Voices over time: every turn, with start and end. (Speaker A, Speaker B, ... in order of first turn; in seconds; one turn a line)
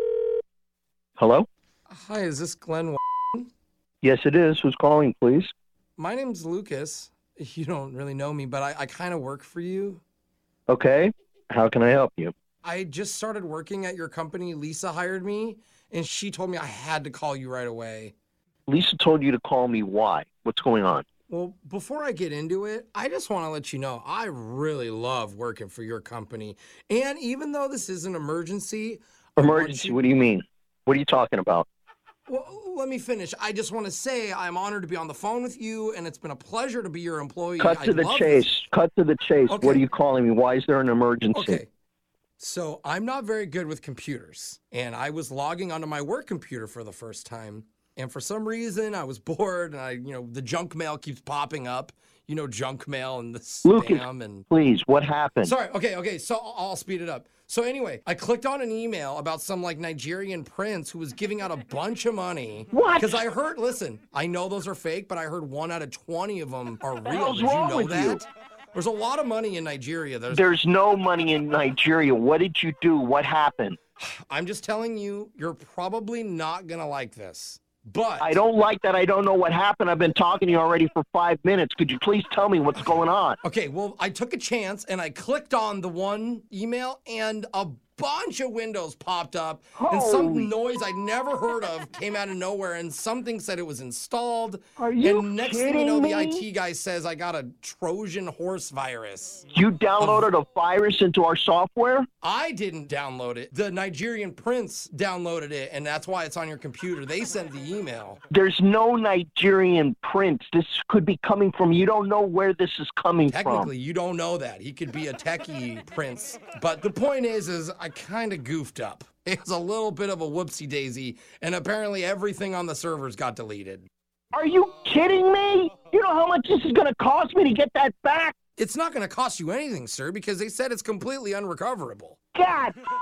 Speaker A: 1.2-1.5
Speaker B: 1.9-3.5
Speaker A: 4.0-5.5
Speaker B: 6.0-10.0
Speaker A: 10.7-12.3
Speaker B: 12.6-18.1
Speaker A: 18.7-21.1
Speaker B: 21.3-30.1
Speaker A: 29.4-31.7
Speaker B: 32.3-38.5
Speaker A: 37.6-41.6
Speaker B: 39.5-39.9
Speaker B: 41.3-41.7
Speaker B: 42.4-54.5
Speaker A: 53.6-55.5
Speaker B: 55.4-70.4
Speaker A: 62.7-63.2
Speaker A: 67.0-68.2
Speaker A: 70.3-73.8
Speaker B: 74.0-78.4
Speaker A: 78.2-83.4
Speaker B: 82.8-99.5
Speaker A: 89.8-90.5
Speaker A: 94.8-96.5
Speaker A: 99.5-102.1
Speaker B: 100.0-100.3
Speaker B: 102.2-108.2
Speaker A: 108.3-113.7
Speaker B: 113.3-123.9
Speaker A: 124.3-128.4
Speaker B: 128.6-132.2
Speaker A: 132.3-132.8